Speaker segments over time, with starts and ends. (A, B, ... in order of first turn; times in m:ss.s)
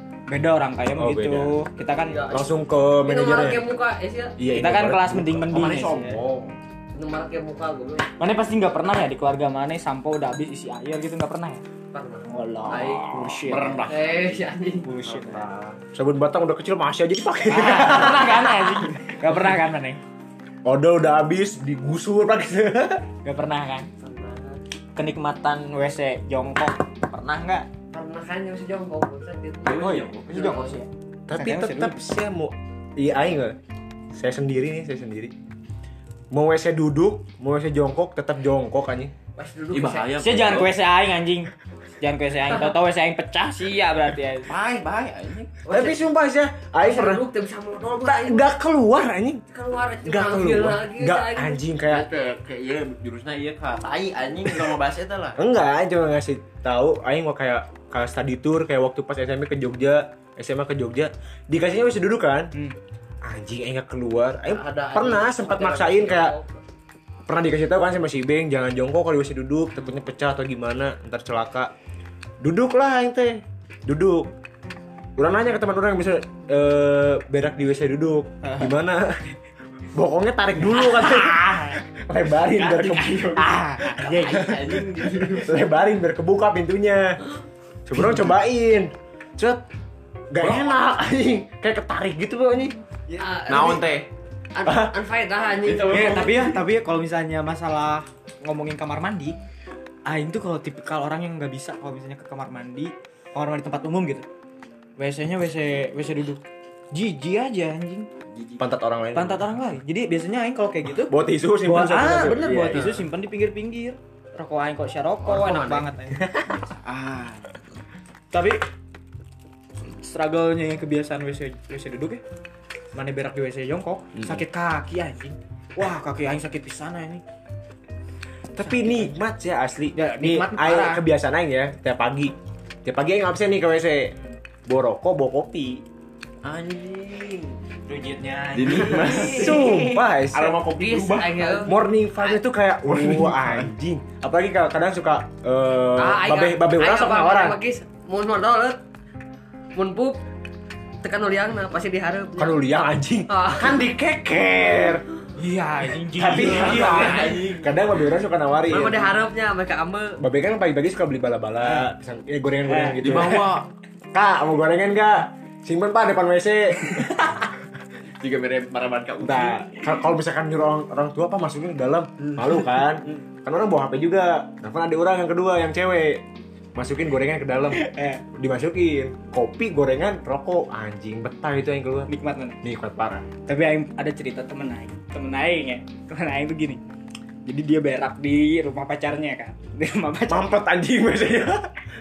0:00.3-0:02.2 A
0:01.0-0:01.6 B
0:01.9-0:04.4 C
0:02.3-0:03.6 B
0:04.4-0:05.9 B
0:04.5-0:06.2 A
0:05.5-0:06.5 D
0:07.0-0:08.1 C
0:08.2-0:11.6 A
0:11.9-0:13.0 C
0:12.2-0:13.9 A
0:12.7-0:14.4 D
0:13.9-0:14.9 C
0:14.8-0:15.5 A
0:15.0-0:15.8 D
0:15.9-0:18.4 B
0:17.5-0:20.0 A
0:20.6-0:23.0 B
0:23.2-0:23.9 A
0:24.0-0:24.6 C
0:25.0-0:27.7 A
0:27.9-0:30.8 C
0:29.6-0:30.6 D
0:29.7-0:32.0 A
0:31.3-0:33.6 B
0:34.1-0:35.3 B
0:36.3-0:39.1 B
0:39.4-0:40.1 C
0:39.7-0:40.7 D
0:40.2-0:44.5 A
0:44.5-0:45.6 D
0:45.7-0:46.0 C
0:45.7-0:47.2 B
0:46.8-0:48.5 C
0:48.0-0:49.4 B
0:49.5-0:51.7 C
0:50.0-0:52.1 B
0:51.8-0:55.4 D
0:55.4-1:02.5 B
1:03.2-1:06.4 B
1:04.5-1:06.6 C
1:07.3-1:11.7 B
1:12.4-1:14.3 B
1:15.2-1:19.3 B
1:18.4-1:18.7 A
1:19.9-1:27.2 B
1:20.8-1:21.8 A
1:22.6-1:24.7 A
1:24.0-1:25.6 D
1:27.9-1:29.6 B
1:30.3-1:32.8 B
1:30.4-1:30.6 D
1:33.2-1:33.9 C
1:33.5-1:34.1 D
1:34.5-1:36.3 C
1:34.6-1:35.0 B
1:35.6-1:36.6 D
1:35.9-1:39.4 A
1:40.1-1:44.3 A
1:45.0-1:46.4 A
1:46.9-1:48.1 A
1:48.3-1:48.7 D
1:48.6-1:49.5 B
1:49.2-1:56.3 A
1:51.0-1:52.9 B
1:55.3-1:55.9 C
1:56.5-1:57.7 D
1:58.3-1:58.6 A
1:59.9-2:02.2 A
2:02.9-2:07.2 A
2:04.2-2:04.4 B
2:08.6-2:14.2 B
2:08.6-2:09.1 A
2:10.0-2:11.0 A
2:14.7-2:15.8 B
2:16.4-2:17.6 D
2:17.9-2:19.7 A
2:18.5-2:21.7 D
2:19.1-2:20.6 B
2:20.7-2:22.3 C
2:21.6-2:27.6 B
2:22.9-2:23.7 D
2:26.0-2:28.8 C
2:29.8-2:30.2 C
2:31.0-2:32.6 C
2:32.4-2:35.0 B
2:33.3-2:33.9 C
2:35.4-2:37.5 A
2:36.1-2:39.1 B
2:36.3-2:38.0 D
2:38.7-2:40.2 C
2:40.2-2:43.5 B
2:41.6-2:41.9 A
2:42.7-2:43.4 A
2:43.0-2:43.7 D
2:44.1-2:47.5 B
2:48.2-2:49.9 D
2:49.2-2:56.2 B
2:52.2-2:53.2 A
2:56.8-3:02.1 B
2:57.7-2:58.2 A
3:02.1-3:02.6 A
3:02.6-3:03.3 B
3:03.5-3:06.8 A
3:07.4-3:10.5 A
3:10.3-3:11.7 B